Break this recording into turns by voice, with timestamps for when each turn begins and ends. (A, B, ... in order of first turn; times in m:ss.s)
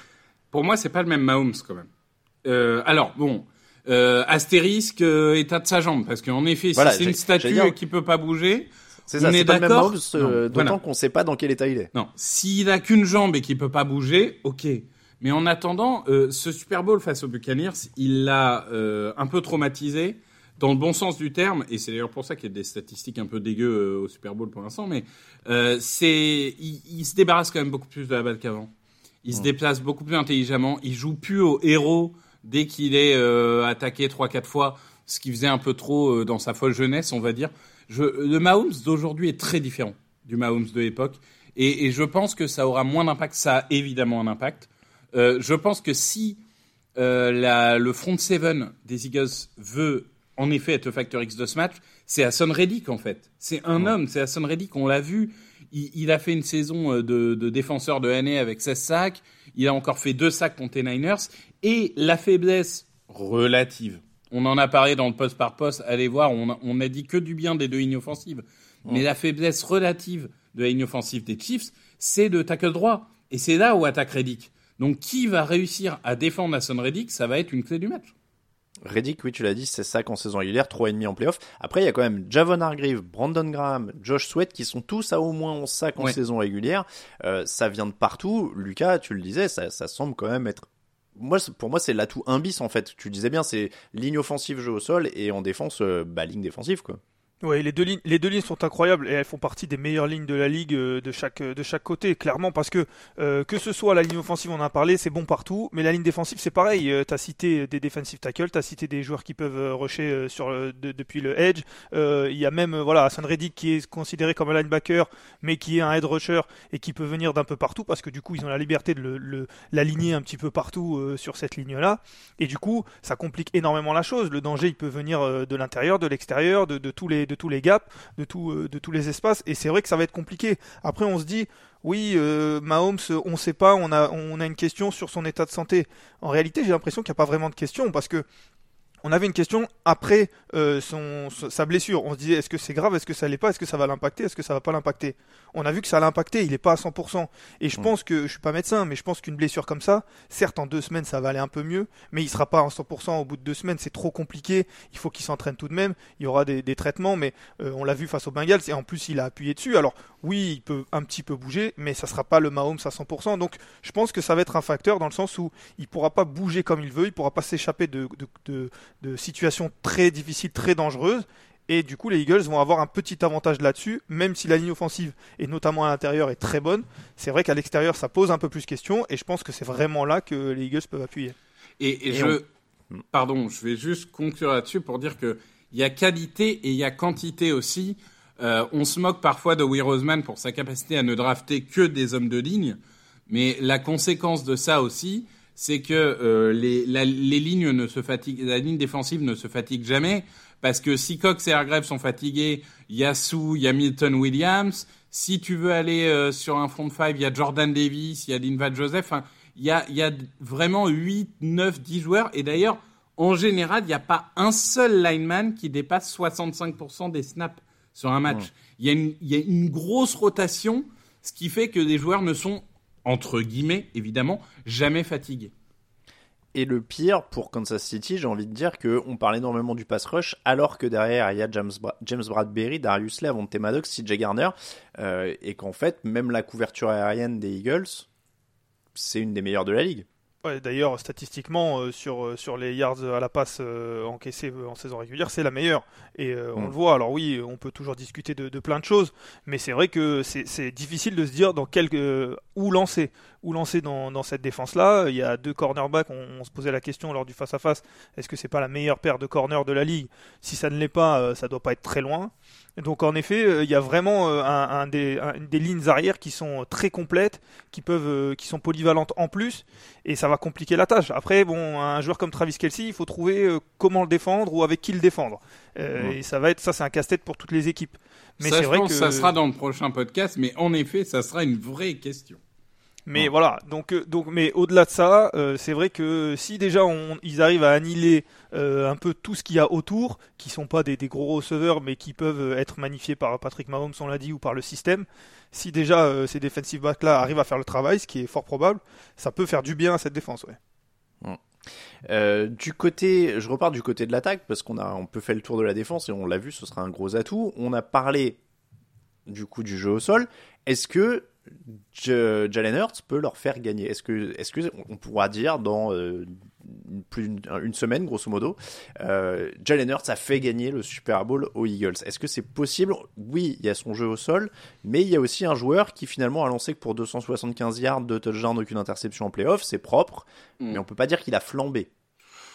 0:00.5-0:01.9 A
0:02.4-0:10.8 A
0:06.8-0:07.8 B
0:09.1-0:11.9 B
0:11.9-0:28.7 A
0:29.2-0:46.4 A
0:47.0-1:18.1 A
1:18.8-1:37.0 B
1:37.4-2:18.2 C
2:19.0-3:01.4 C
3:01.8-3:02.4 A
3:02.1-3:02.4 B
3:03.1-3:12.8 A
3:13.3-3:45.5 A
3:46.5-3:58.1 B
3:59.0-4:00.1 B
4:00.4-4:39.3 C
4:38.4-4:42.4 A
4:43.1-5:00.6 C
5:02.1-5:08.4 B
5:09.3-5:31.9 B